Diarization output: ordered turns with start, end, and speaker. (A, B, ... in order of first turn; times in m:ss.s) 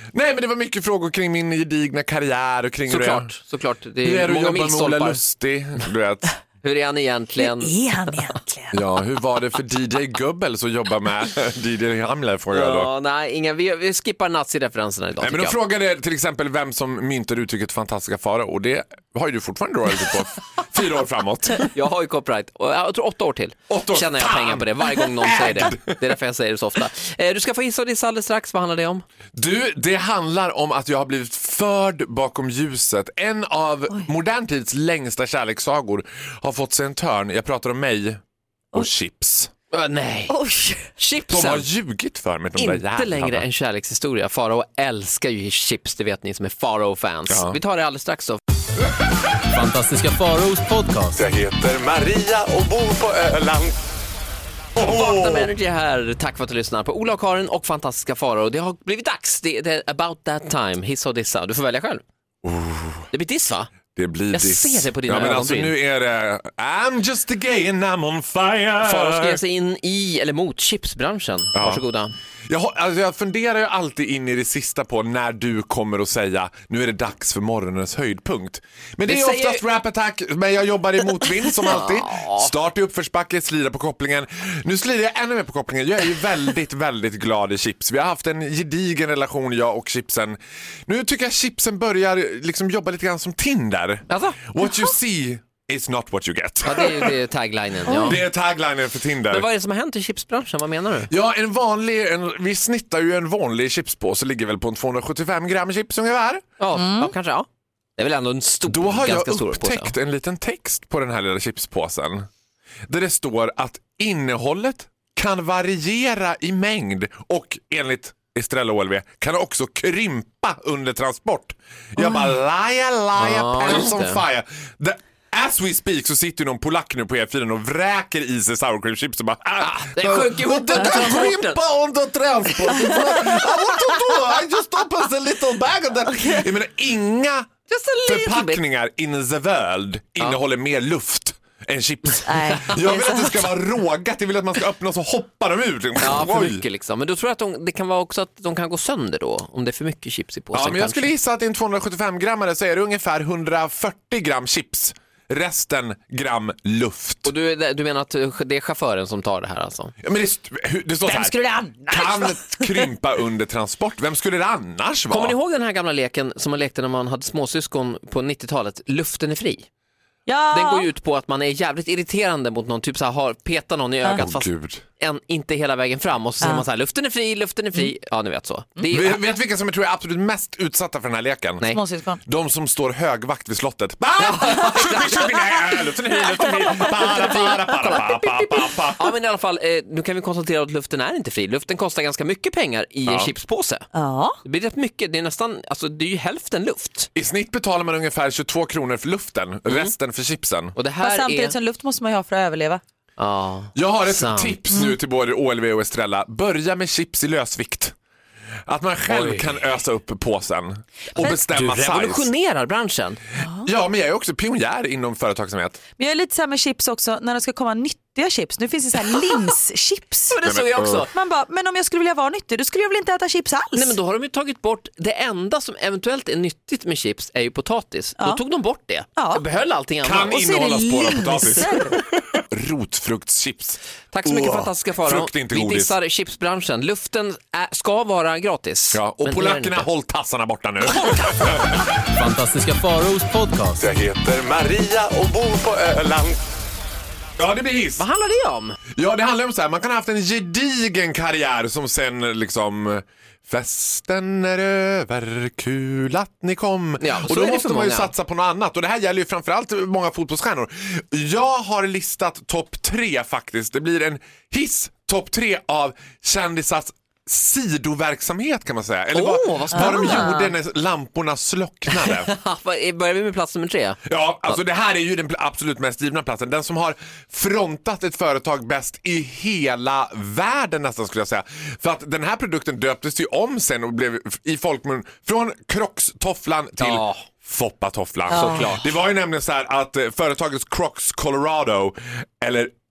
0:00.1-0:03.3 A
0:02.9-0:05.2 B
0:04.0-0:06.3 A
0:06.6-0:07.7 B
0:07.4-0:08.8 C
0:08.7-0:12.9 A
0:12.5-0:15.6 B
0:15.2-0:21.7 A
0:21.7-0:29.0 B
0:23.7-0:26.0 A
0:29.3-0:38.2 A
0:38.7-0:39.5 A
0:39.7-0:40.3 B
0:40.3-0:40.9 C
0:41.0-0:41.7 B
0:41.3-0:43.4 A
0:42.6-0:48.4 B
0:47.3-0:47.6 A
0:49.5-0:51.2 D
0:51.2-0:53.7 A
0:54.8-0:55.5 A
0:54.8-1:02.0 B
1:02.4-1:03.1 A
1:03.1-1:03.7 B
1:04.0-1:09.4 A
1:04.3-1:05.7 B
1:08.8-1:12.1 B
1:11.5-1:11.8 A
1:12.5-1:37.2 A
1:19.0-1:19.6 B
1:21.6-1:22.5 B
1:34.1-1:34.4 B
1:36.6-1:38.2 B
1:37.8-1:39.5 A
1:37.9-1:38.2 C
1:39.3-1:41.1 B
1:41.1-1:46.4 A
1:46.6-1:49.9 B
1:46.7-1:47.1 C
1:48.7-1:52.3 A
1:52.9-2:17.5 A
2:03.2-2:04.2 B
2:09.6-2:11.6 B
2:17.7-2:18.6 B
2:18.0-2:26.6 A
2:22.2-2:23.5 C
2:26.0-2:31.1 B
2:30.5-2:37.3 A
2:37.2-2:39.9 B
2:40.0-2:41.3 A
2:41.0-2:42.9 C
2:41.9-2:45.3 A
2:45.1-2:49.7 B
2:50.2-2:50.9 C
2:50.5-2:59.2 B
2:54.2-2:54.8 A
2:58.9-3:01.7 A
3:01.7-3:02.2 C
3:02.2-3:09.1 A
3:04.2-3:05.3 B
3:06.8-3:13.9 B
3:06.8-3:08.0 C
3:13.0-3:13.3 A
3:13.9-3:14.4 C
3:14.4-3:17.1 B
3:17.1-3:20.8 A
3:19.6-3:19.9 B
3:20.8-3:21.6 B
3:21.0-3:22.8 C
3:23.2-3:24.6 B
3:23.7-3:27.9 A
3:28.7-3:32.3 A
3:29.1-3:29.4 B
3:31.1-3:33.2 B
3:33.4-3:33.7 C
3:33.6-3:35.8 A
3:36.0-3:40.4 C
3:40.3-3:41.1 B
3:40.4-3:41.0 A
3:41.1-3:44.0 C
3:43.7-3:50.4 B
3:49.2-3:49.4 C
3:50.0-3:55.9 A
3:50.3-3:52.0 C
3:54.1-3:59.9 B
3:58.9-4:01.9 A
4:02.0-4:03.8 D
4:03.8-4:06.4 A
4:07.4-4:08.0 A
4:08.0-4:08.8 B
4:08.9-4:32.3 A
4:17.0-4:18.1 B
4:29.1-4:30.5 B
4:29.7-4:30.4 C
4:31.9-4:34.6 B
4:34.0-4:52.7 A
4:46.8-4:47.2 B
4:48.3-4:48.9 B
4:48.3-4:48.7 C